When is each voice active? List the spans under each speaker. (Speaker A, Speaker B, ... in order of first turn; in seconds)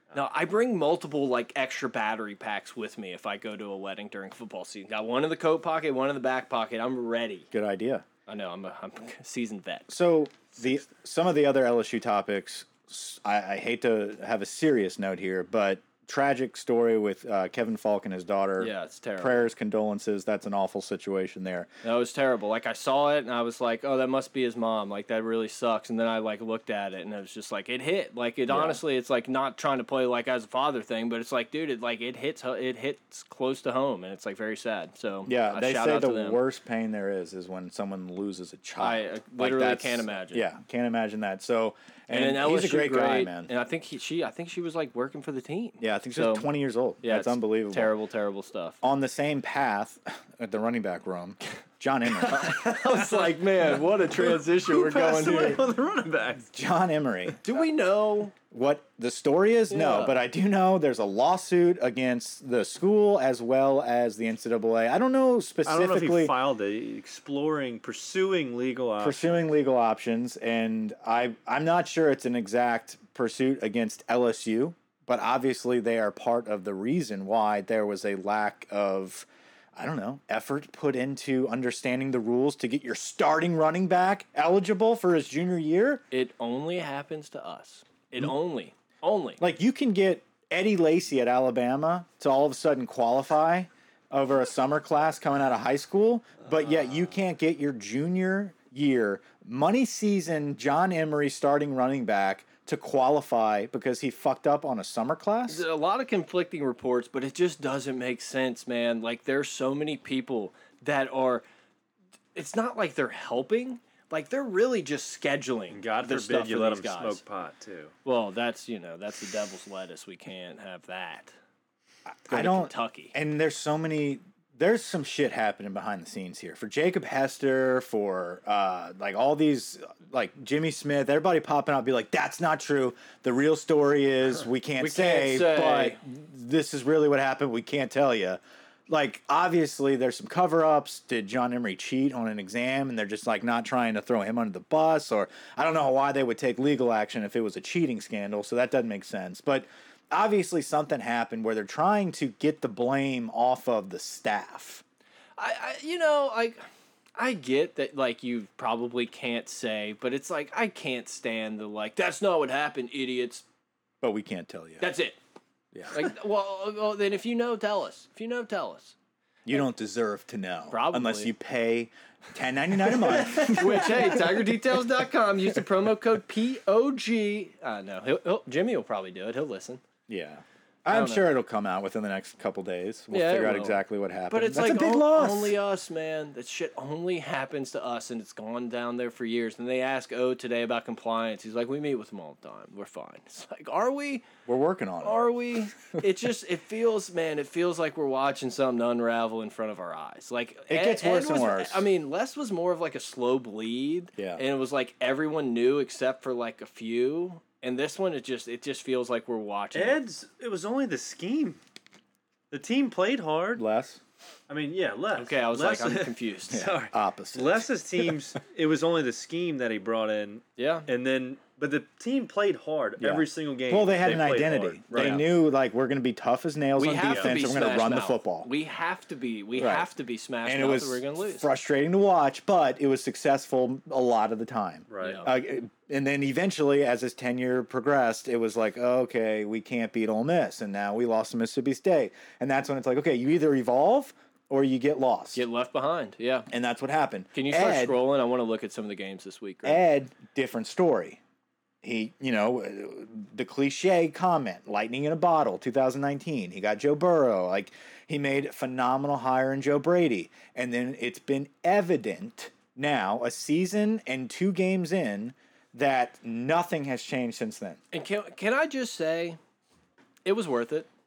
Speaker A: 0.1-7.5, 8.3-9.9, 18.6-19.5, 21.8-36.4, 38.8-40.5, 42.1-46.5, 47.0-48.8, 52.2-55.6, 57.4-58.3, 59.7-60.1, 86.1-89.4, 105.5-111.4, 112.3-117.2, 118.0-121.3, 122.3-123.1, 134.8-136.0, 155.4-156.6, 157.2-163.4, 164.8-165.2, 165.9-168.9, 170.7-171.3, 172.8-179.8, 180.9-181.2, 183.1-194.2, 195.0-210.0, 215.2-216.6, 220.6-220.9, 224.9-225.2, 226.8-231.5, 235.0-235.3, 245.3-246.5, 247.3-249.8, 267.9-269.4, 270.2-270.9
Speaker B: 7.5-8.0, 9.9-21.7, 28.5-28.8, 35.3-43.5, 45.8-47.9, 48.8-52.5, 56.5-57.4, 58.5-66.3, 69.0-86.0, 89.4-105.6, 122.1-154.8, 164.0-164.9, 165.7-166.0, 169.4-174.5, 180.1-185.5, 194.4-195.2, 200.7-201.8, 204.2-204.4, 213.6-214.0, 216.5-217.6, 223.0-228.5, 229.6-229.9, 230.4-245.4, 246.5-247.9, 249.6-251.2, 251.8-267.8
Speaker C: 52.4-56.5, 65.6-69.4, 115.7-117.9, 209.7-211.6, 212.5-213.6, 214.5-225.2, 227.1-227.4, 234.9-235.2